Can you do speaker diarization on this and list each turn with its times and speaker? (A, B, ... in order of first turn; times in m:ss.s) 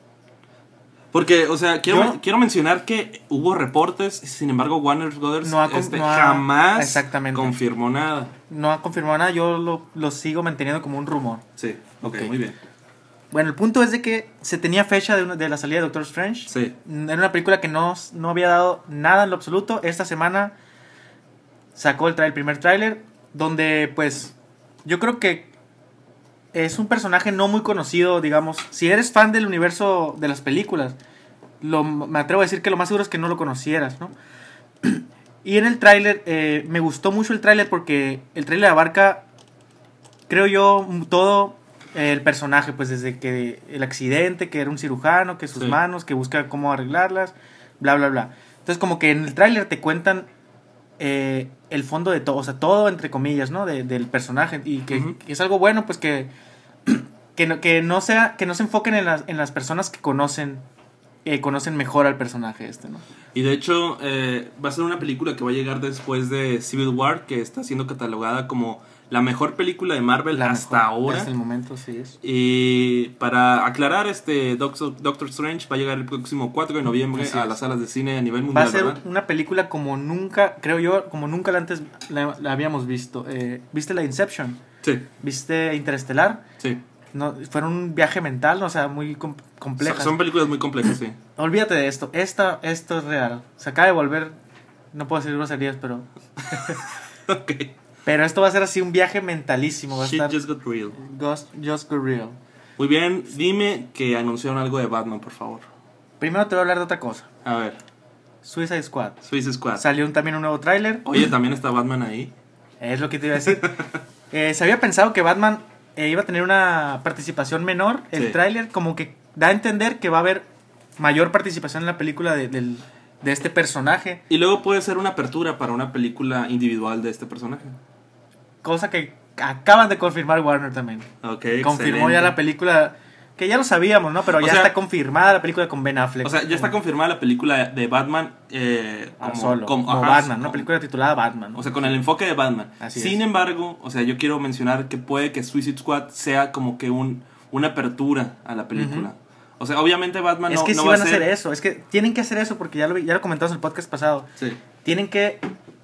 0:01.1-0:08.3 A
0:01.9-0:02.2 B
0:05.4-0:07.6 B
0:08.5-0:11.4 B
0:11.6-0:12.6 A
0:12.0-0:12.4 B
0:13.3-0:20.6 B
0:16.5-0:16.8 A
0:21.8-0:25.5 B
0:26.5-0:31.0 B
0:31.6-0:34.2 B
0:34.8-0:39.3 B
0:40.3-0:50.3 B
0:45.5-0:45.8 A
0:51.0-0:56.3 B
0:54.9-0:55.2 A
0:56.9-1:00.6 B
1:01.2-1:03.0 B
1:03.4-1:11.3 A
1:10.3-1:12.2 B
1:12.2-1:19.0 A
1:17.1-1:17.6 B
1:18.5-1:24.6 B
1:24.8-1:25.1 A
1:25.2-1:26.4 B
1:27.1-1:30.2 B
1:29.8-1:31.2 A
1:31.4-1:34.4 B
1:34.9-1:36.8 B
1:36.6-1:37.7 A
1:38.0-1:40.4 B
1:39.9-1:41.0 A
1:40.9-1:42.4 B
1:42.8-1:45.7 A
1:46.2-1:47.3 B
1:47.4-1:47.8 A
1:48.4-1:51.1 B
1:49.2-1:49.8 A
1:51.0-1:52.3 A
1:52.8-2:04.2 B
2:04.3-2:07.8 A
2:08.6-2:11.1 B
2:11.2-2:12.4 A
2:11.6-2:16.7 B
2:14.4-2:14.7 A
2:16.2-2:20.7 A
2:19.2-2:22.0 B
2:21.5-2:31.3 A
2:22.8-2:23.2 B
2:28.7-2:29.1 B
2:30.5-2:34.3 B
2:34.8-2:35.5 B